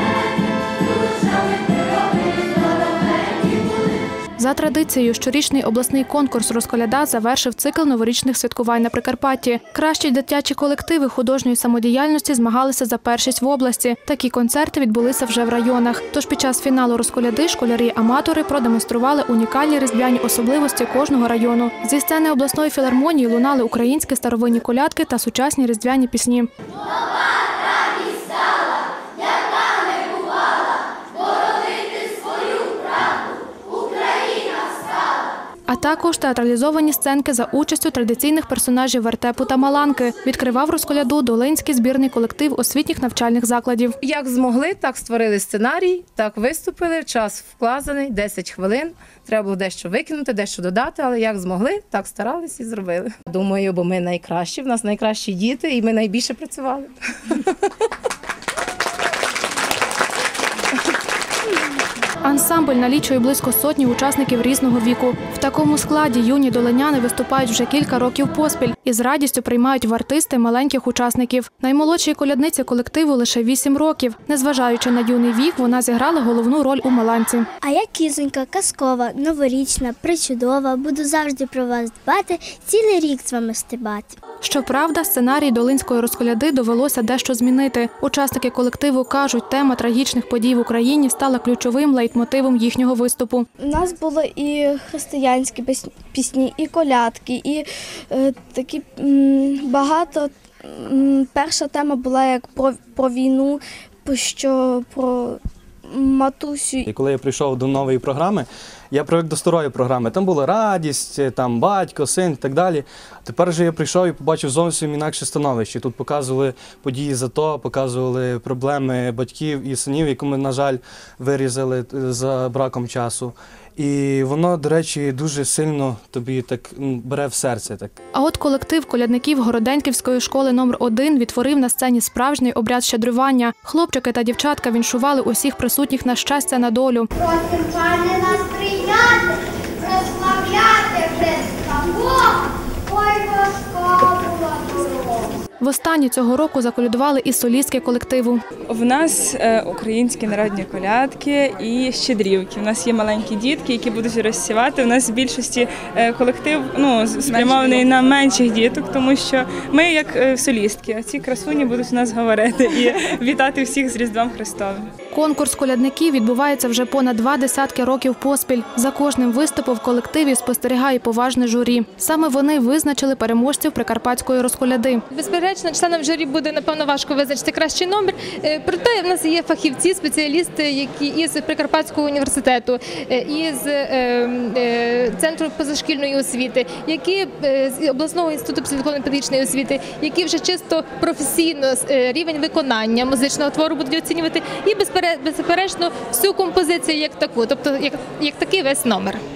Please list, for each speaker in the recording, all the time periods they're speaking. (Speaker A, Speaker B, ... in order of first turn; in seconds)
Speaker A: 4.4-26.5, 35.7-43.9, 62.2-77.5, 84.4-93.5, 128.1-137.1, 145.6-148.4, 165.1-175.0
Speaker B: 44.0-57.5
Speaker C: 77.6-84.2
Speaker D: 93.6-106.9
Speaker E: 106.9-127.9
Speaker F: 137.2-145.3
Speaker G: 148.7-164.9
Speaker H: 175.1-199.2